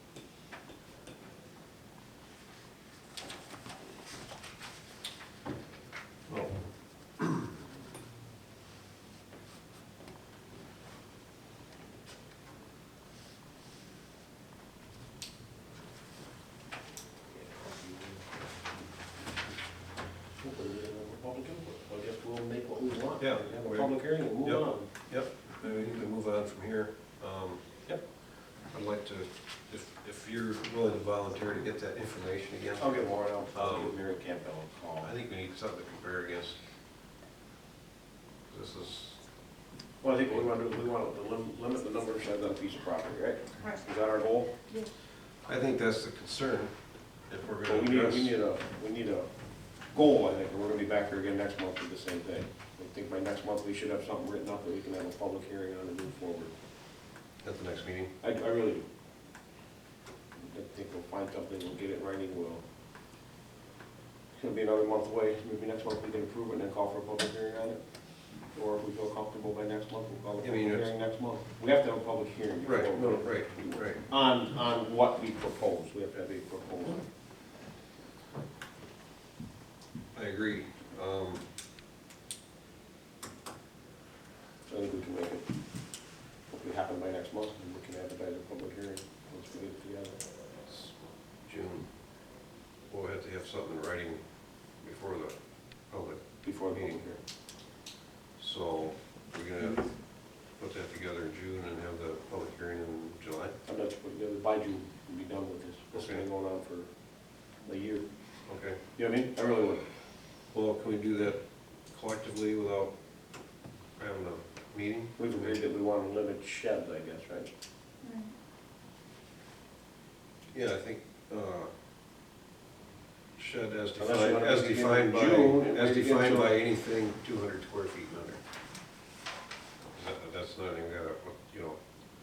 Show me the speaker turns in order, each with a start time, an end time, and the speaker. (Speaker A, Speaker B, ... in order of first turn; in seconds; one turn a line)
Speaker A: 6.3-7.4
Speaker B: 17.3-18.2
Speaker B: 20.4-24.9
Speaker A: 23.2-27.9
Speaker A: 28.6-34.0
Speaker B: 32.8-35.1
Speaker A: 35.0-36.6
Speaker A: 38.5-39.2
Speaker B: 40.0-44.5
Speaker A: 45.5-48.4
Speaker B: 47.6-49.3
Speaker B: 49.9-56.5
Speaker A: 57.4-58.1
Speaker B: 58.2-58.9
Speaker B: 60.4-62.6
Speaker B: 64.3-67.8
Speaker B: 68.5-77.0
Speaker A: 70.4-70.9
Speaker A: 72.6-74.0
Speaker A: 80.1-81.4
Speaker B: 84.7-85.5
Speaker B: 86.5-90.2
Speaker A: 90.7-91.9
Speaker A: 92.9-95.3
Speaker A: 95.9-97.0
Speaker B: 96.4-97.2
Speaker A: 98.4-103.5
Speaker B: 103.6-106.9
Speaker A: 105.9-106.2
Speaker B: 107.6-108.0
Speaker A: 108.5-108.8
Speaker B: 108.9-109.8
Speaker A: 110.5-112.9
Speaker A: 114.0-115.6
Speaker B: 115.2-117.5
Speaker A: 120.5-121.7
Speaker A: 123.3-128.4
Speaker B: 124.0-126.6
Speaker A: 129.9-131.8